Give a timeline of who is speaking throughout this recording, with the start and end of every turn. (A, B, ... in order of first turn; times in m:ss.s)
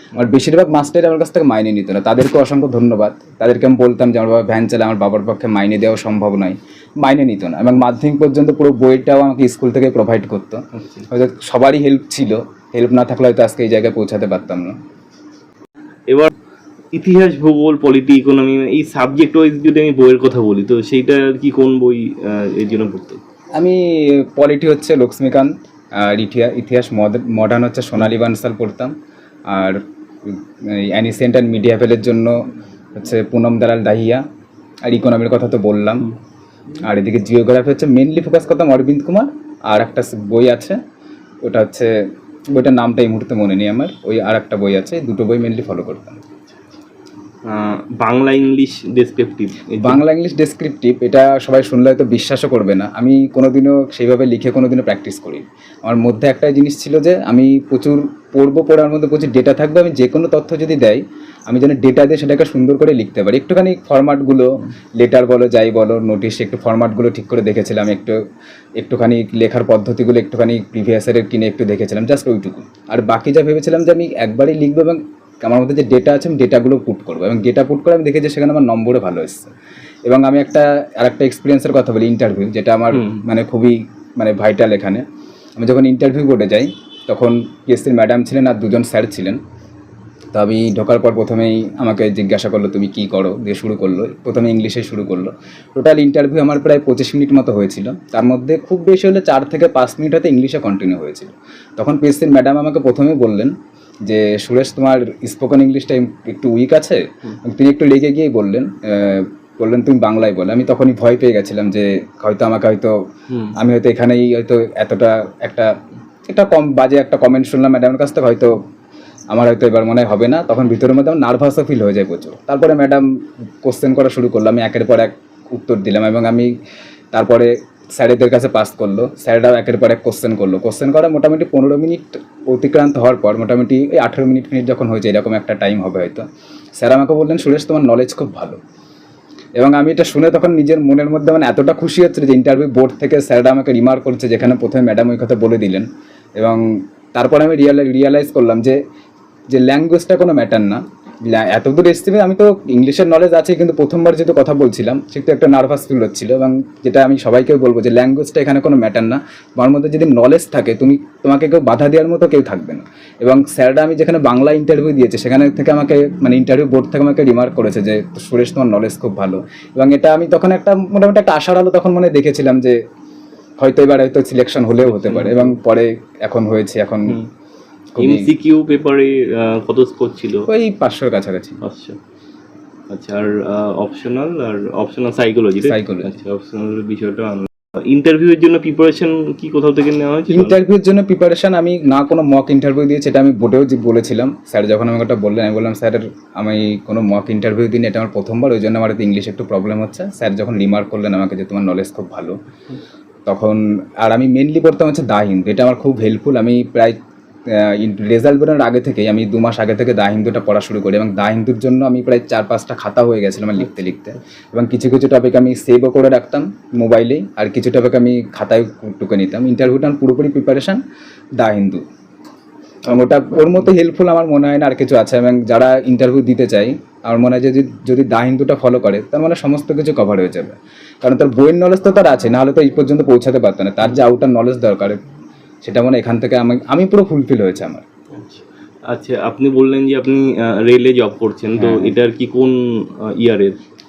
0:00.1-0:14.8 A
0:10.8-0:11.0 B
0:16.9-0:23.2 B
0:23.6-0:28.9 A
0:29.5-0:34.2 A
0:34.8-0:36.1 A
0:36.8-0:40.8 A
0:41.4-0:42.0 A
0:42.5-0:46.2 A
0:47.5-0:50.0 B
0:49.8-1:08.2 A
1:08.8-1:19.5 A
1:20.1-1:25.0 A
1:22.9-1:23.2 B
1:25.6-1:29.4 A
1:30.3-1:43.5 A
1:44.0-1:53.0 A
1:53.6-1:55.7 A
1:56.3-1:58.6 A
1:59.3-2:03.1 A
2:03.6-2:06.5 A
2:07.1-2:16.3 A
2:16.8-2:18.6 A
2:19.6-2:28.8 A
2:29.5-2:52.8 A
2:53.6-2:57.2 A
2:54.8-2:55.6 B
2:57.9-2:58.3 A
2:58.0-3:00.5 B
3:00.5-3:01.6 A
3:01.6-3:02.0 B
3:02.9-3:10.6 B
3:05.6-3:06.1 A
3:10.3-3:22.4 A
3:23.3-3:40.8 A
3:33.6-3:33.9 B
3:41.4-3:41.8 A
3:42.9-3:55.0 A
3:55.6-3:57.8 A
3:58.1-4:03.6 B
4:01.6-4:01.9 A